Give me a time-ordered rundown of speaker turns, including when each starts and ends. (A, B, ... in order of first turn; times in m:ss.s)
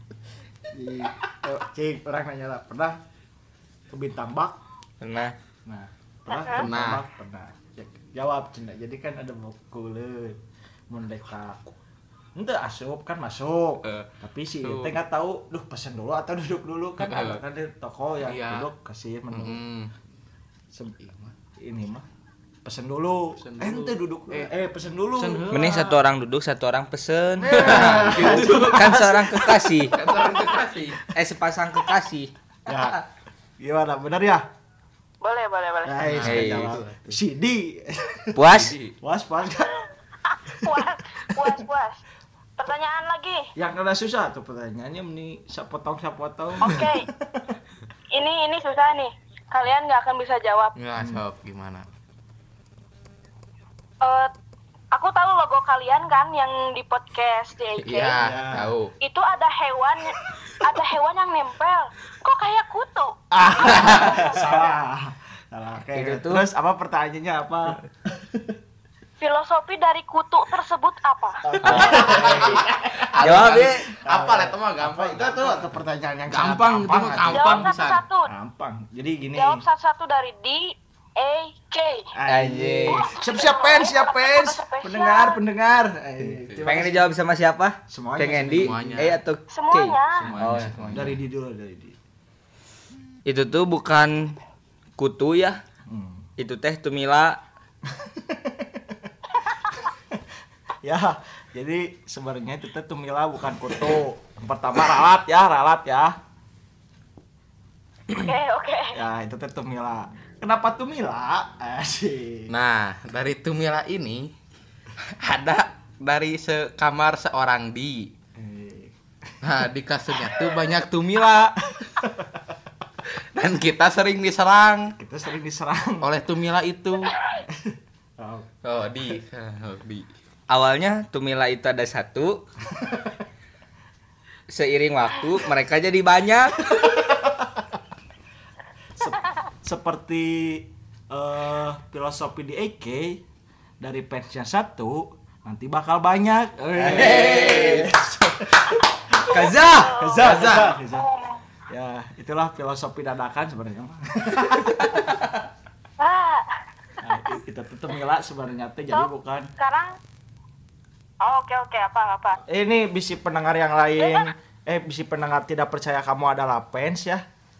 0:00.7-0:03.0 A
0:03.9-0:04.6 A
0:05.0-0:05.3 B
0:05.6-0:11.7 A
0:06.3-0:06.6 C
0:06.5-0:07.0 D
0:12.4-0:19.6 A
0:13.8-0:15.0 D
0:17.0-0:17.4 D
0:18.2-0:18.7 D
0:19.3-0:19.9 D
0:21.0-0:21.3 D
0:21.6-0:22.0 A
0:22.6-0:25.5 A
0:23.4-0:24.5 D
0:25.1-0:26.0 D
0:25.5-0:30.0 B
0:27.4-0:29.8 A
0:27.6-0:29.0 D
0:29.9-0:31.1 D
0:31.1-0:32.3 B
0:32.6-0:33.0 A
0:33.6-0:34.4 A
0:35.2-0:36.0 C
0:35.8-0:39.8 A
0:36.0-0:37.2 D
0:36.2-0:36.8 B
0:38.3-0:38.8 B
0:38.5-0:39.0 D
0:40.3-0:42.0 C
0:40.5-0:41.6 A
0:42.6-0:43.5 C
0:43.6-0:47.6 A
0:46.6-0:47.1 C
0:48.1-0:50.7 C
0:50.8-0:51.8 D
0:54.0-0:54.3 C
0:54.9-0:58.2 C
0:57.8-0:58.9 D
0:58.1-0:58.7 A
0:59.0-1:04.7 C
1:03.3-1:08.6 A
1:03.7-1:04.2 D
1:05.9-1:06.4 B
1:09.2-1:12.6 C
1:11.4-1:17.7 A
1:11.6-1:12.6 B
1:11.7-1:15.7 D
1:13.1-1:13.9 B
1:16.3-1:18.0 D
1:17.3-1:18.3 C
1:18.2-1:19.6 A
1:19.3-1:22.1 C
1:22.1-1:27.1 A
1:22.3-1:23.1 B
1:22.9-1:25.4 C
1:26.4-1:26.7 D
1:26.6-1:31.1 B
1:27.9-1:29.2 A
1:28.4-1:29.2 D
1:29.5-1:30.3 C
1:30.1-1:31.2 D
1:30.9-1:32.0 A
1:33.2-1:34.4 B
1:35.0-1:35.6 B
1:35.8-1:36.3 A
1:36.4-1:37.4 B
1:37.8-1:39.1 A
1:40.8-1:46.2 A
1:48.1-1:49.0 C
1:48.9-1:52.5 A
1:52.5-1:54.3 D
1:55.0-1:58.1 D
1:58.4-1:59.5 A
1:59.4-2:02.0 D
2:02.0-2:02.3 A
2:03.0-2:05.0 D
2:05.0-2:06.1 A
2:06.0-2:07.1 D
2:07.4-2:08.5 A
2:08.6-2:10.1 D
2:10.5-2:12.4 B
2:12.7-2:13.2 A
2:14.5-2:16.8 B
2:16.9-2:17.6 A
2:19.0-2:23.2 A
2:23.8-2:31.1 A
2:26.7-2:27.9 D
2:26.8-2:27.9 B
2:29.3-2:29.9 B
2:29.3-2:31.4 C
2:30.2-2:30.7 D
2:31.7-2:35.3 A
2:36.0-2:37.4 C
2:37.0-2:39.5 A
2:38.9-2:40.0 C
2:41.2-2:42.4 C
2:42.4-2:47.2 A
2:44.0-2:44.3 C